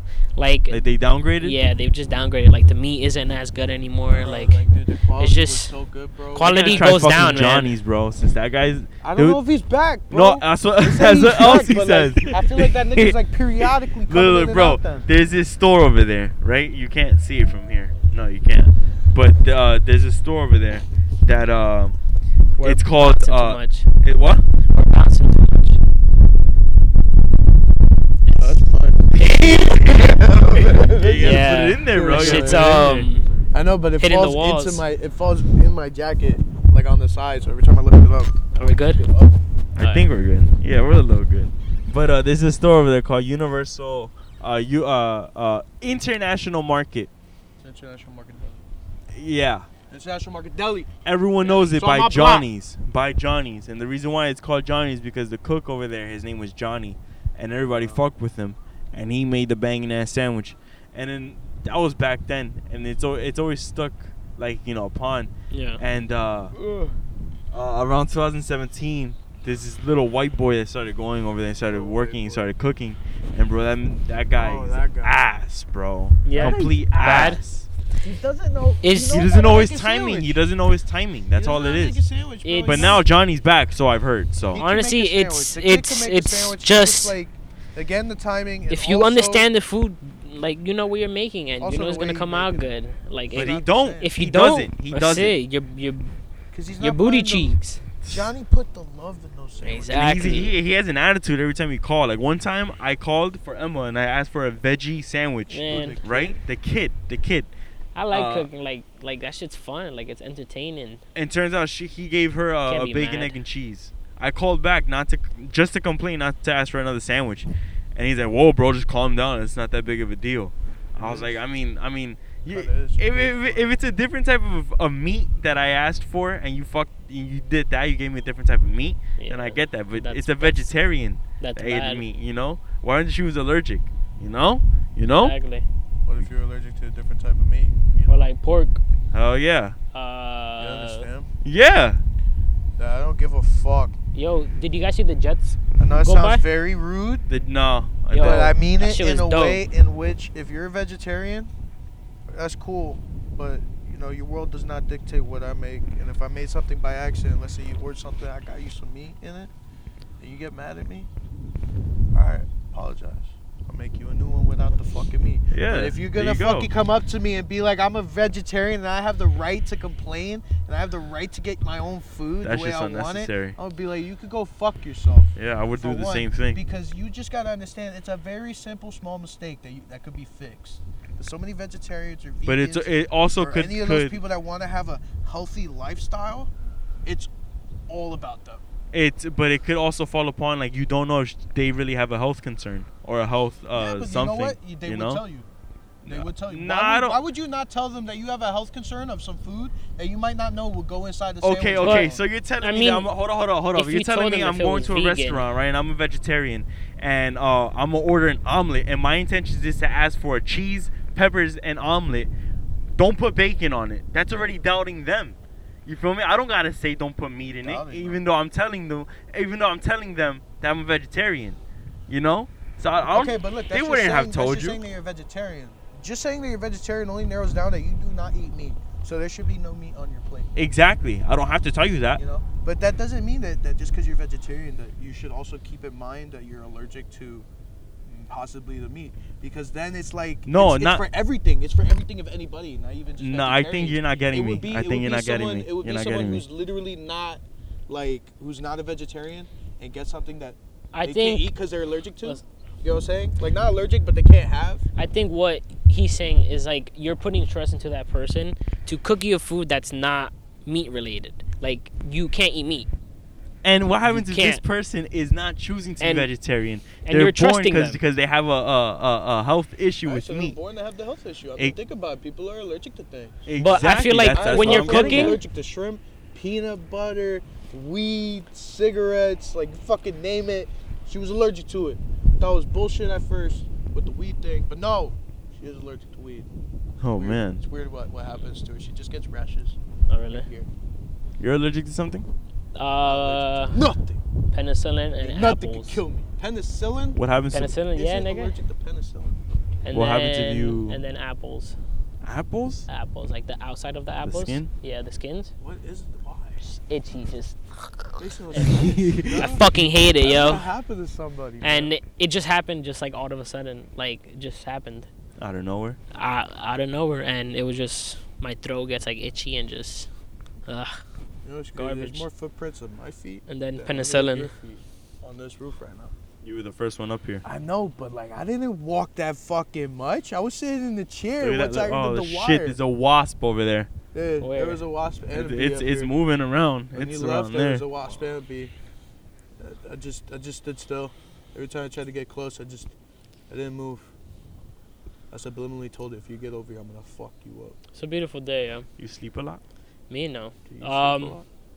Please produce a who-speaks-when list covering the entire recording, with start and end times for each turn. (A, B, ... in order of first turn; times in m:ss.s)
0:00.4-0:00.8 A
0:00.7-0:01.6 B
0:01.4-0:04.6 A
0:04.1-0:07.4 C
0:05.2-0:05.7 A
0:06.3-0:07.8 A
0:06.4-0:09.4 B
0:09.0-0:15.1 C
0:10.1-0:22.0 B
0:22.6-0:23.9 A
0:22.6-0:24.4 B
0:24.7-0:25.8 A
0:28.3-0:28.5 A
0:28.4-0:39.4 C
0:29.2-0:29.6 A
0:29.2-0:33.1 B
0:31.2-0:33.3 A
0:34.0-0:34.8 A
0:38.6-0:39.0 A
0:39.8-0:47.1 B
0:39.8-0:40.1 A
0:47.6-0:48.6 C
0:49.1-0:49.7 B
0:49.9-0:50.9 C
0:51.0-1:06.6 B
0:51.4-0:52.5 C
0:57.7-0:58.0 C
1:05.5-1:05.8 A
1:06.5-1:07.0 C
1:07.5-1:17.7 B
1:11.6-1:12.5 C
1:14.4-1:15.2 C
1:16.2-1:17.4 A
1:16.4-1:17.4 C
1:18.0-1:20.4 C
1:18.8-1:19.3 A
1:19.1-1:22.0 B
1:21.4-1:23.0 C
1:22.4-1:23.0 A
1:22.6-1:24.6 B
1:24.5-1:29.5 C
1:24.6-1:27.2 A
1:28.7-1:36.2 A
1:31.6-1:32.7 C
1:33.3-1:34.1 C
1:33.3-1:35.4 B
1:36.5-1:40.5 C
1:36.8-1:37.8 A
1:38.0-1:38.3 B
1:39.6-1:40.5 A
1:39.9-1:47.5 B
1:45.5-1:46.0 A
1:45.7-1:46.4 C
1:48.0-1:51.0 A
1:48.1-1:48.5 B
1:51.2-2:15.4 B
1:52.7-1:53.4 A
2:01.0-2:01.4 C
2:02.4-2:03.7 C
2:09.2-2:10.7 A
2:11.4-2:12.0 A
2:15.1-2:15.7 A
2:16.1-2:18.3 C
2:18.1-2:18.8 A
2:19.1-2:19.8 B
2:19.9-2:21.1 A
2:20.6-2:21.3 C
2:21.4-2:22.0 B
2:22.8-2:23.9 C
2:24.1-2:26.4 A
2:25.8-2:27.3 C
2:27.3-2:28.6 B
2:28.1-2:29.6 A
2:28.2-2:31.5 C
2:32.3-2:39.5 C
2:40.2-2:41.1 C
2:42.1-3:06.5 C
2:45.5-2:46.7 B
2:52.4-2:53.6 B
2:55.4-2:56.6 B
3:02.5-3:04.2 B
3:07.9-3:08.6 C
3:08.9-3:15.2 B
3:13.8-3:15.5 C
3:16.0-3:17.2 B
3:16.1-3:22.2 C
3:21.4-3:32.3 B
3:21.8-3:23.1 A
3:23.8-3:25.4 A
3:33.0-3:44.8 B
3:37.6-3:38.2 C
3:43.0-3:50.5 C
3:50.6-3:52.2 B
3:52.2-3:57.5 C
3:58.1-4:14.8 C
4:00.5-4:01.0 B
4:03.2-4:06.4 B
4:10.9-4:11.5 A
4:15.0-4:22.9 A
4:23.6-4:30.6 B
4:24.1-4:24.6 A
4:26.0-4:26.3 A
4:27.0-4:28.0 A
4:30.0-4:33.4 C
4:33.5-4:35.4 B
4:33.6-4:35.4 A
4:34.3-4:46.5 C
4:47.0-4:47.6 B
4:47.2-4:49.8 C
4:50.1-4:50.5 A
4:50.3-4:50.7 C
4:51.4-4:52.3 B
4:52.8-4:53.8 A
4:53.0-4:54.2 C
4:54.5-4:56.0 A
4:55.2-4:57.2 C
4:57.2-4:57.8 B
4:57.5-4:58.5 A
4:57.9-4:59.4 C
4:59.8-5:01.8 A
4:59.9-5:01.0 B
5:02.2-5:02.9 B
5:02.9-5:05.5 A
5:04.2-5:04.7 B
5:05.6-5:06.7 C
5:06.6-5:08.8 A
5:08.2-5:11.9 C
5:08.7-5:09.5 B
5:09.3-5:10.6 A
5:11.6-5:15.1 A
5:15.4-5:16.0 B
5:16.1-5:20.1 A
5:20.7-5:21.0 A
5:21.4-5:26.1 C
5:21.8-5:22.3 A
5:23.5-5:24.5 A
5:26.4-5:27.4 B
5:27.4-5:32.8 C
5:31.4-5:33.9 B
5:34.1-5:36.1 C
5:34.4-5:34.8 A
5:35.3-5:37.9 B
5:36.9-5:38.7 C
5:39.6-5:42.9 C
5:43.5-5:44.1 C
5:45.3-5:47.8 C
5:48.0-5:48.9 A
5:49.0-5:49.6 B
5:50.1-5:51.4 A
5:50.7-5:51.5 C